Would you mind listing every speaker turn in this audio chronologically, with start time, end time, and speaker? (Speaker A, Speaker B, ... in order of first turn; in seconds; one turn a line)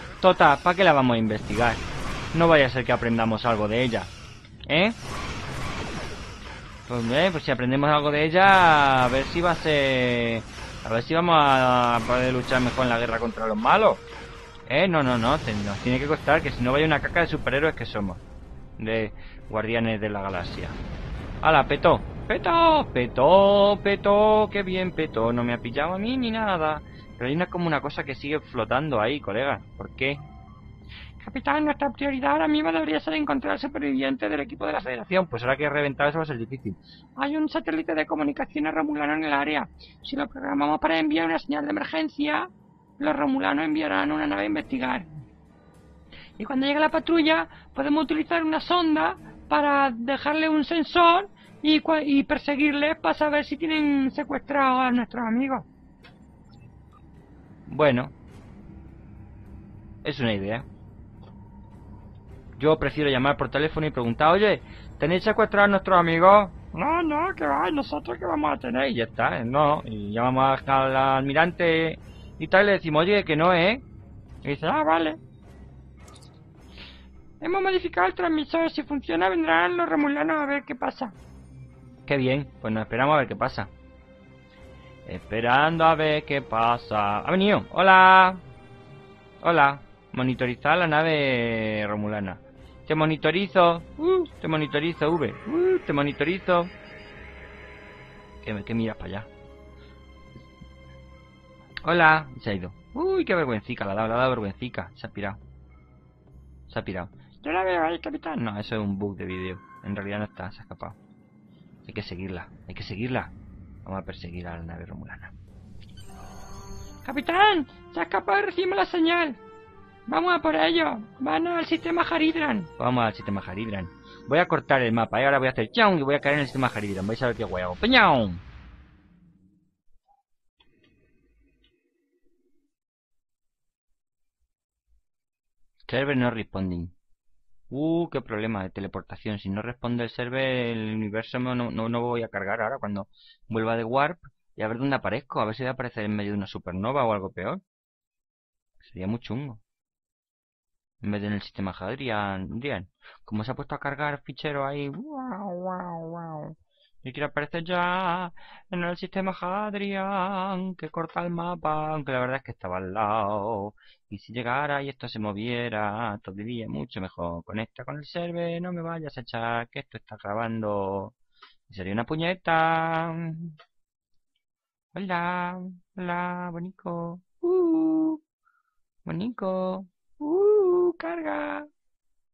Speaker A: 0.2-4.1
Speaker A: 4.7-5.0
Speaker A: 6.9-14.0
Speaker A: 14.7-18.2
Speaker A: 18.8-20.8
Speaker A: 21.4-30.2
Speaker B: 31.2-35.1
Speaker A: 35.1-36.8
Speaker B: 37.2-45.1
Speaker B: 46.4-55.7
Speaker A: 57.7-58.1
Speaker A: 60.0-60.7
Speaker A: 62.6-66.7
Speaker B: 66.7-68.8
Speaker A: 68.7-73.8
Speaker A: 74.5-75.2
Speaker B: 74.6-75.0
Speaker B: 77.4-81.2
Speaker A: 82.1-83.7
Speaker A: 85.1-88.4
Speaker A: 89.4-96.7
Speaker A: 98.4-99.3
Speaker A: 101.8-105.4
Speaker A: 106.7-107.1
Speaker B: 107.4-108.4
Speaker A: 108.4-111.0
Speaker A: 111.8-113.3
Speaker A: 113.8-115.3
Speaker B: 117.0-119.4
Speaker B: 120.1-122.7
Speaker A: 122.8-128.4
Speaker A: 135.9-136.9
Speaker A: 137.7-147.6
Speaker A: 148.8-149.6
Speaker A: 151.0-171.2
Speaker A: 171.7-173.6
Speaker A: 174.9-178.2
Speaker A: 179.1-181.7